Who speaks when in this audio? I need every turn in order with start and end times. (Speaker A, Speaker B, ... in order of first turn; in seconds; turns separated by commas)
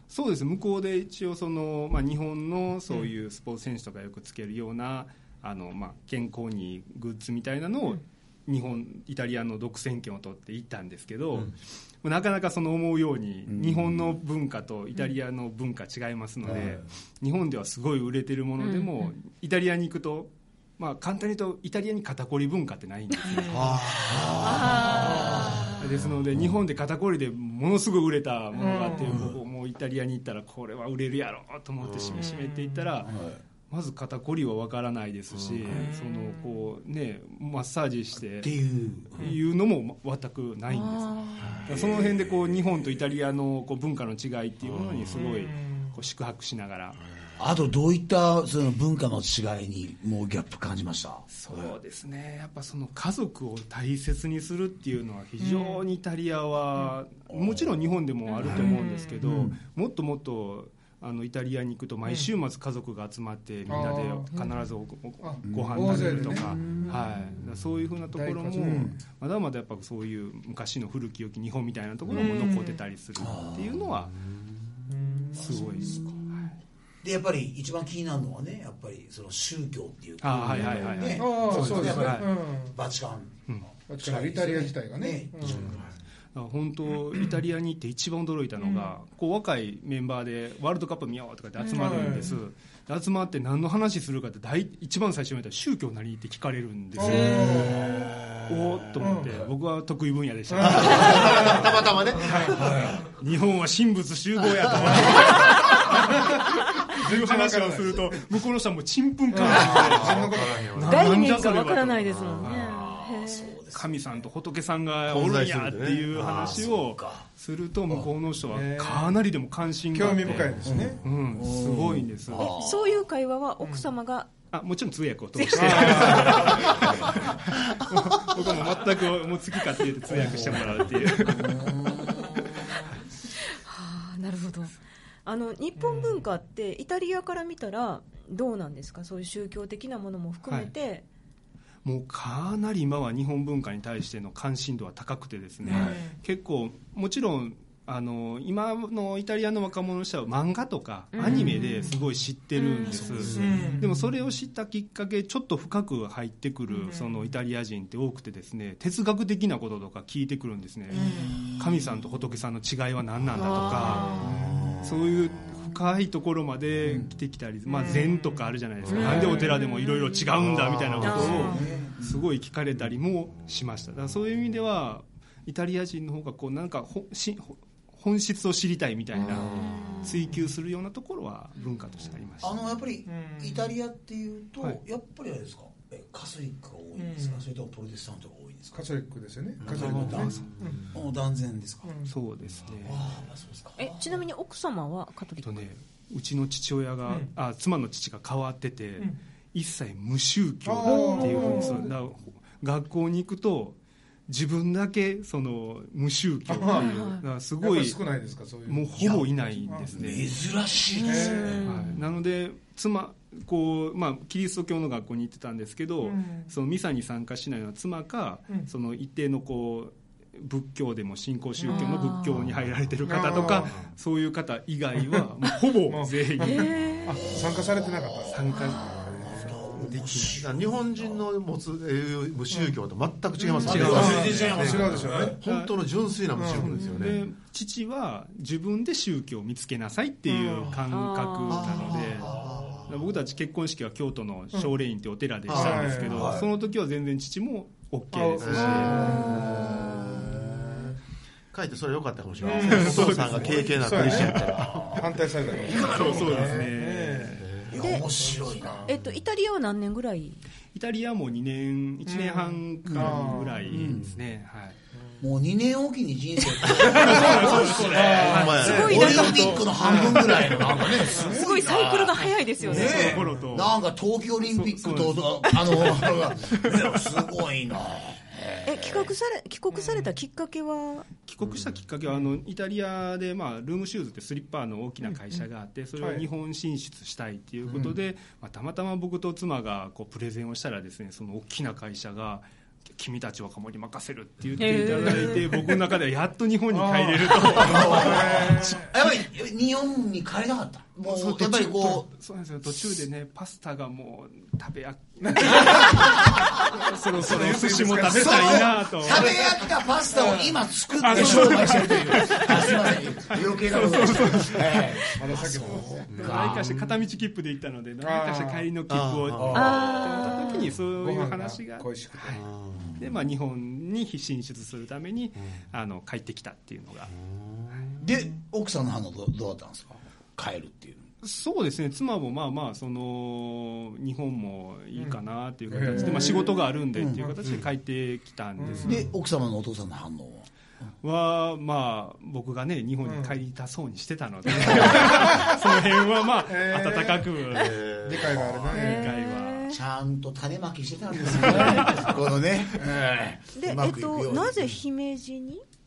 Speaker A: 0.1-33.1, Speaker B: 13.5-14.2, Speaker B: 16.4-16.8, Speaker C: 18.6-19.1, Speaker D: 23.5-24.7, Speaker B: 23.6-25.8, Speaker C: 24.4-25.9, Speaker E: 28.6-29.2, Speaker D: 31.8-32.2, Speaker E: 32.2-33.0, Speaker B: 33.0-33.4, Speaker A: 33.7-38.5, Speaker D: 35.4-35.8, Speaker E: 35.7-36.6, Speaker B: 38.4-39.4, Speaker A: 39.2-47.0, Speaker C: 40.7-41.6, Speaker D: 41.4-42.2, Speaker D: 44.7-45.2, Speaker E: 45.1-46.0, Speaker B: 47.4-51.7, Speaker A: 51.3-74.2, Speaker E: 55.4-55.8, Speaker B: 57.3-57.8, Speaker C: 58.3-58.9, Speaker E: 58.5-59.5, Speaker B: 59.2-59.6, Speaker E: 63.7-64.3, Speaker E: 65.2-66.6, Speaker B: 65.5-67.0, Speaker E: 68.1-69.0, Speaker B: 68.6-69.0, Speaker E: 72.1-72.8, Speaker B: 73.2-73.9, Speaker E: 74.9-76.0, Speaker B: 75.2-76.2, Speaker A: 75.3-76.6, Speaker B: 77.0-85.9, Speaker A: 80.2-82.3, Speaker E: 81.1-82.8, Speaker E: 83.9-85.7, Speaker A: 86.3-97.8, Speaker C: 91.6-92.3, Speaker E: 91.8-92.3, Speaker E: 97.0-98.1, Speaker C: 97.0-97.5, Speaker B: 97.3-97.9, Speaker A: 98.5-101.7, Speaker E: 99.0-99.3, Speaker E: 100.5-101.7, Speaker D: 100.8-103.0, Speaker E: 102.2-102.7, Speaker B: 102.5-103.0, Speaker A: 102.7-112.9, Speaker E: 105.0-105.2, Speaker C: 105.3-105.6, Speaker E: 106.0-108.2, Speaker E: 109.3-110.8, Speaker D: 109.4-111.3, Speaker C: 110.8-113.6, Speaker B: 112.3-114.2, Speaker A: 113.7-122.5, Speaker D: 115.1-116.2, Speaker B: 116.1-117.3, Speaker E: 118.5-119.2, Speaker E: 119.9-121.0, Speaker B: 120.6-122.9, Speaker C: 122.4-124.3, Speaker E: 123.6-123.9, Speaker A: 124.5-131.7, Speaker C: 125.4-127.3, Speaker E: 125.5-126.8, Speaker B: 126.6-127.4, Speaker B: 130.1-132.9, Speaker C: 132.0-132.9, Speaker C: 133.4-134.7, Speaker C: 135.2-141.1, Speaker E: 135.8-136.2, Speaker A: 140.5-140.7, Speaker A: 141.8-164.2, Speaker B: 145.7-146.0, Speaker E: 145.7-146.2, Speaker C: 151.1-152.0, Speaker E: 151.2-151.8, Speaker C: 152.6-153.4, Speaker D: 153.1-153.4, Speaker B: 153.2-153.7, Speaker E: 153.3-154.1, Speaker E: 156.9-157.2, Speaker E: 160.9-161.4, Speaker B: 160.9-161.7, Speaker C: 163.3-164.4, Speaker B: 164.2-165.1, Speaker A: 164.8-182.6, Speaker B: 166.8-167.1, Speaker E: 167.7-168.3, Speaker D: 168.8-169.2, Speaker C: 168.9-170.3, Speaker E: 169.0-169.6, Speaker D: 170.4-171.5, Speaker C: 171.0-171.7, Speaker B: 171.0-172.3, Speaker C: 179.4-180.1, Speaker D: 179.4-179.9, Speaker B: 182.4-188.8, Speaker E: 183.1-183.7, Speaker E: 187.0-187.5, Speaker E: 188.7-190.9, Speaker D: 189.6-190.9, Speaker B: 189.6-191.9, Speaker A: 189.8-190.4, Speaker E: 191.8-192.1, Speaker A: 192.1-193.0, Speaker B: 192.8-194.2, Speaker C: 193.8-195.6, Speaker A: 195.4-208.0, Speaker E: 200.7-201.9, Speaker C: 200.9-201.7, Speaker E: 206.5-206.9, Speaker C: 206.7-207.2, Speaker E: 207.6-209.9, Speaker A: 208.7-210.4, Speaker B: 209.0-209.2, Speaker B: 209.9-211.7, Speaker C: 211.0-212.0, Speaker E: 211.0-211.6, Speaker A: 211.6-226.7, Speaker E: 216.1-216.5, Speaker C: 221.7-222.5, Speaker E: 223.1-223.8, Speaker D: 223.5-223.9, Speaker E: 225.9-229.3, Speaker C: 226.4-227.2, Speaker B: 227.2-231.2, Speaker A: 228.3-230.4, Speaker C: 228.5-228.9, Speaker D: 230.1-237.2, Speaker C: 233.5-233.8, Speaker E: 233.6-235.4, Speaker A: 233.6-234.8, Speaker B: 233.6-235.4, Speaker A: 235.4-235.7, Speaker E: 236.3-236.8, Speaker A: 236.5-242.4, Speaker C: 236.8-237.2, Speaker E: 240.3-240.8, Speaker C: 240.9-242.1, Speaker D: 241.5-243.1, Speaker B: 242.2-242.8, Speaker A: 242.9-249.5, Speaker D: 245.5-246.0, Speaker E: 245.5-246.4, Speaker B: 246.1-246.5, Speaker E: 248.1-249.7, Speaker D: 248.4-251.0, Speaker C: 248.7-250.2, Speaker B: 249.2-250.9, Speaker D: 251.5-255.1, Speaker E: 252.4-258.9, Speaker A: 252.6-253.6, Speaker B: 252.8-256.6, Speaker A: 255.7-257.5, Speaker D: 257.4-257.8, Speaker B: 257.7-258.9, Speaker C: 257.8-258.1, Speaker C: 258.9-260.4, Speaker A: 260.7-264.8, Speaker E: 262.1-263.7, Speaker B: 262.9-264.1, Speaker D: 263.7-264.2, Speaker B: 265.2-279.1, Speaker A: 266.8-269.7, Speaker E: 266.8-271.3, Speaker C: 267.2-270.2, Speaker D: 268.2-269.5, Speaker C: 270.8-273.2, Speaker A: 272.6-273.8, Speaker E: 272.8-273.5, Speaker A: 274.4-277.0, Speaker C: 278.7-281.1, Speaker E: 279.7-280.1, Speaker A: 281.3-298.7, Speaker E: 286.0-286.3, Speaker C: 294.6-295.5, Speaker E: 294.9-295.4, Speaker E: 296.7-298.9, Speaker B: 297.5-302.1, Speaker A: 301.0-309.6, Speaker E: 305.2-306.3, Speaker E: 306.8-309.4, Speaker B: 308.1-316.6, Speaker E: 310.1-311.6, Speaker A: 311.0-322.4, Speaker E: 314.5-316.1, Speaker D: 316.1-317.0, Speaker E: 318.0-318.7, Speaker D: 318.9-319.8, Speaker B: 319.4-320.3, Speaker C: 319.5-320.8, Speaker E: 320.9-322.4, Speaker D: 322.3-323.0, Speaker A: 323.0-327.1, Speaker D: 327.1-328.0, Speaker B: 328.0-331.1, Speaker A: 331.2-339.0, Speaker E: 335.0-336.6, Speaker B: 336.9-337.4, Speaker E: 338.6-339.1, Speaker B: 338.8-340.5, Speaker A: 341.0-347.8, Speaker E: 343.1-343.4, Speaker E: 344.7-345.6, Speaker E: 346.4-347.4, Speaker D: 347.5-348.8, Speaker E: 348.0-349.2, Speaker C: 348.7-349.8, Speaker A: 348.7-349.7, Speaker B: 349.7-354.8, Speaker A: 351.4-352.1, Speaker C: 351.6-352.0, Speaker C: 353.6-355.6